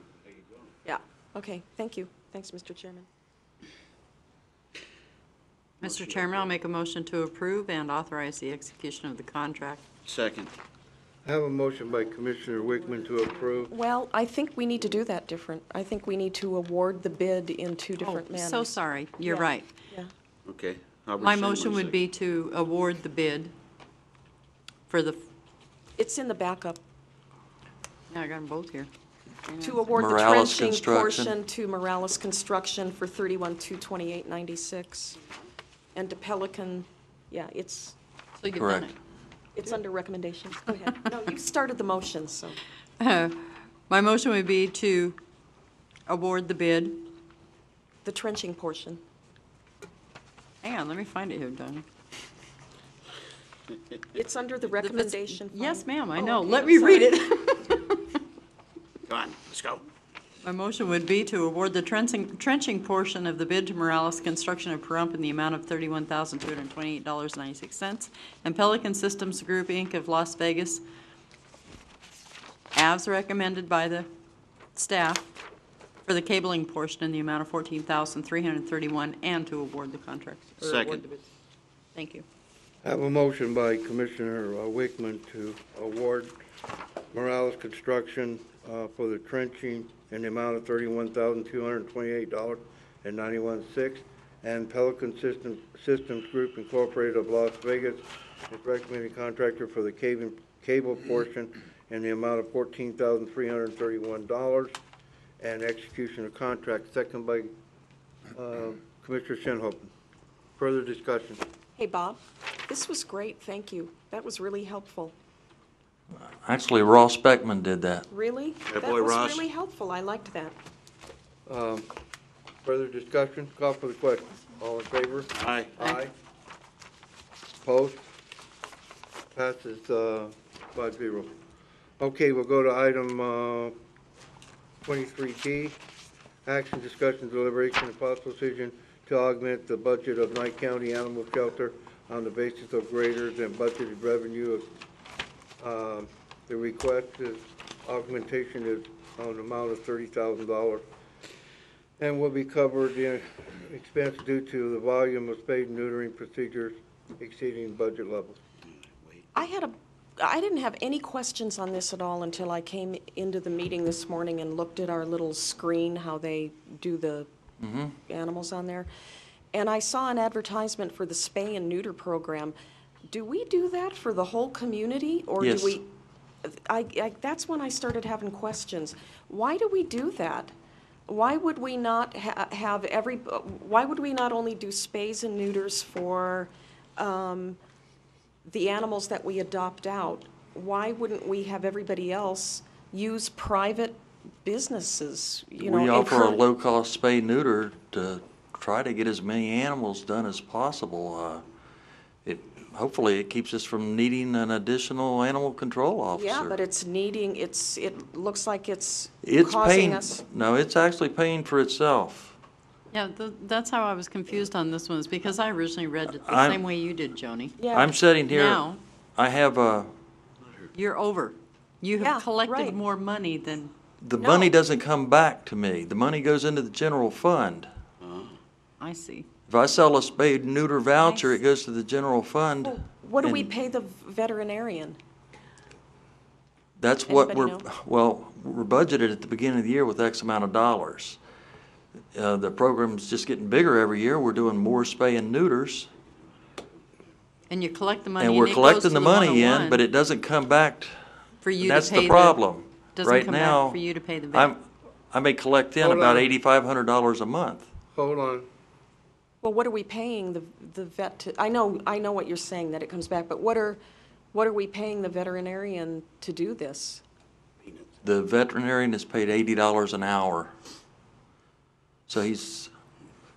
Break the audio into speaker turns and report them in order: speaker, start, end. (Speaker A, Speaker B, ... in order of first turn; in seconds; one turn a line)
Speaker A: 0.8-3.1
Speaker B: 5.8-9.8
Speaker C: 5.8-6.5
Speaker C: 10.1-10.5
Speaker D: 11.2-13.7
Speaker A: 13.7-18.7
Speaker B: 18.0-19.7
Speaker A: 19.2-20.1
Speaker C: 20.5-22.0
Speaker B: 21.2-23.5
Speaker B: 24.9-25.2
Speaker A: 26.0-26.8
Speaker B: 28.1-28.9
Speaker B: 29.5-29.8
Speaker A: 29.6-35.2
Speaker E: 29.9-31.3
Speaker A: 36.0-38.0
Speaker B: 38.4-38.9
Speaker E: 38.5-38.9
Speaker A: 39.6-42.6
Speaker B: 43.0-45.2
Speaker B: 46.1-47.1
Speaker A: 48.0-49.0
Speaker B: 50.6-51.9
Speaker A: 54.1-57.2
Speaker B: 54.8-58.2
Speaker C: 59.1-59.8
Speaker B: 60.4-70.8
Speaker B: 72.7-74.1
Speaker B: 74.8-75.3
Speaker B: 76.0-81.3
Speaker C: 80.6-81.0
Speaker B: 82.0-82.2
Speaker D: 82.8-86.4
Speaker D: 87.1-104.8
Speaker D: 105.4-107.5
Speaker D: 108.3-109.9
Speaker D: 110.6-111.4
Speaker A: 111.8-115.2
Speaker E: 116.4-118.1
Speaker A: 118.1-120.5
Speaker C: 118.7-119.4
Speaker D: 121.5-121.9
Speaker D: 122.7-126.1
Speaker C: 125.4-125.7
Speaker D: 127.6-128.1
Speaker D: 129.3-131.3
Speaker D: 132.0-133.8
Speaker D: 134.8-135.8
Speaker D: 136.4-144.7
Speaker D: 145.6-150.8
Speaker D: 152.0-158.4
Speaker A: 159.3-167.3
Speaker E: 167.6-167.9
Speaker A: 168.1-168.9
Speaker A: 169.5-172.6
Speaker A: 173.1-175.9
Speaker E: 175.4-175.8
Speaker A: 176.4-180.5
Speaker A: 181.1-187.6
Speaker A: 188.5-196.4
Speaker E: 195.6-201.4
Speaker E: 202.2-206.6
Speaker A: 206.1-210.2
Speaker E: 209.2-212.4
Speaker B: 212.9-217.6
Speaker E: 216.2-216.6
Speaker A: 217.6-217.9
Speaker E: 217.7-218.6
Speaker B: 218.3-218.8
Speaker E: 219.2-219.9
Speaker B: 220.7-224.5
Speaker A: 222.0-222.8
Speaker E: 224.0-227.7
Speaker C: 228.0-228.3
Speaker B: 228.8-229.3
Speaker E: 229.5-233.5
Speaker A: 232.6-235.0
Speaker E: 236.8-241.2
Speaker A: 237.1-237.7
Speaker E: 242.2-245.9
Speaker B: 247.5-249.8
Speaker E: 248.2-250.9
Speaker B: 251.4-252.4
Speaker E: 251.6-253.8
Speaker B: 252.9-254.5
Speaker E: 254.3-257.7
Speaker D: 255.8-256.3
Speaker D: 257.9-258.5
Speaker A: 259.4-263.8
Speaker A: 264.3-267.0
Speaker E: 268.0-270.5
Speaker E: 272.1-272.7